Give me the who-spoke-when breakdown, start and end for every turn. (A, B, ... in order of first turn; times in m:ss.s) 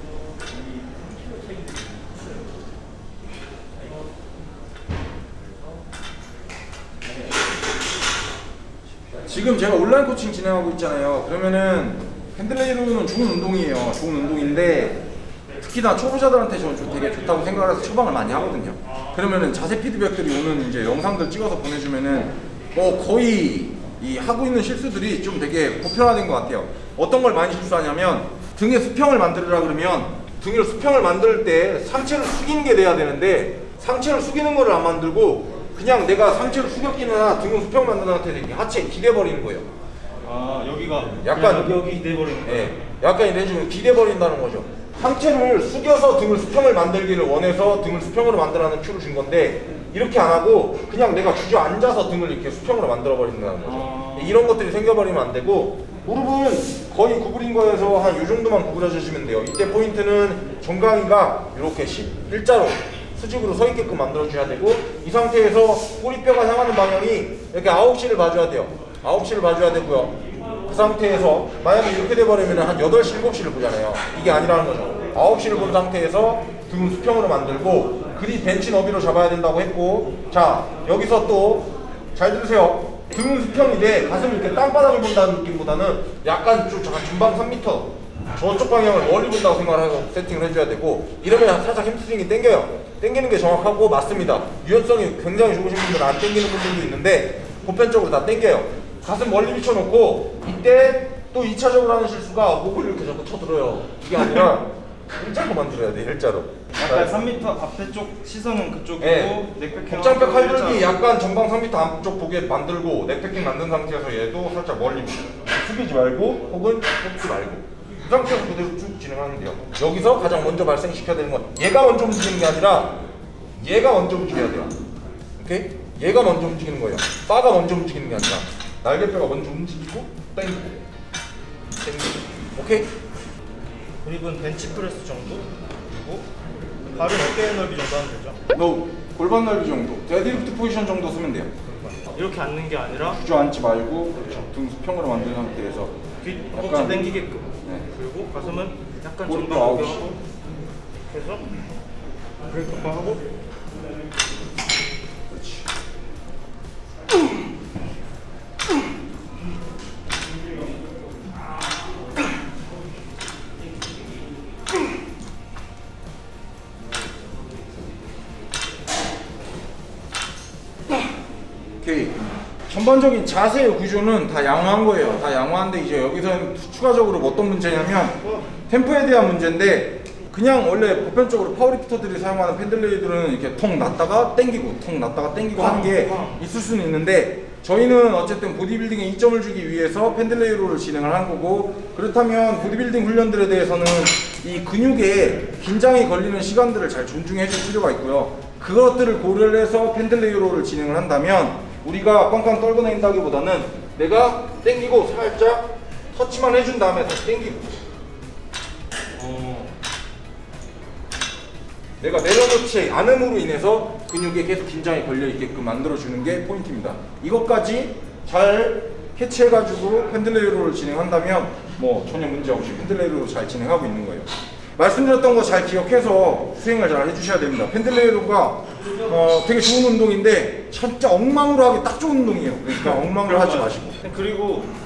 0:09.2-0:15.0 A
0:15.6-0:39.6 A
0:40.2-0:42.8 B
0:41.2-0:41.8 A
0:42.4-1:47.2 A
0:53.6-0:54.4 B
1:46.7-1:51.0 B
1:49.0-2:03.0 A
2:03.6-2:04.8 A
2:05.4-2:10.8 A
2:11.8-2:12.9 A
2:14.0-2:16.3 B
2:16.9-2:18.4 B
2:18.5-2:21.5 A
2:21.7-2:23.2 B
2:23.1-2:25.9 A
2:26.2-2:30.2 B
2:26.5-2:27.1 A
2:29.2-2:30.0 A
2:31.0-2:31.5 B
2:32.5-2:33.2 B
2:35.3-2:35.7 A
2:51.8-2:58.2 A
2:58.0-2:58.5 B
2:58.7-3:27.7 A
3:05.5-3:06.4 B
3:29.1-3:29.7 B
3:32.0-3:54.0 A
3:53.1-3:54.7 B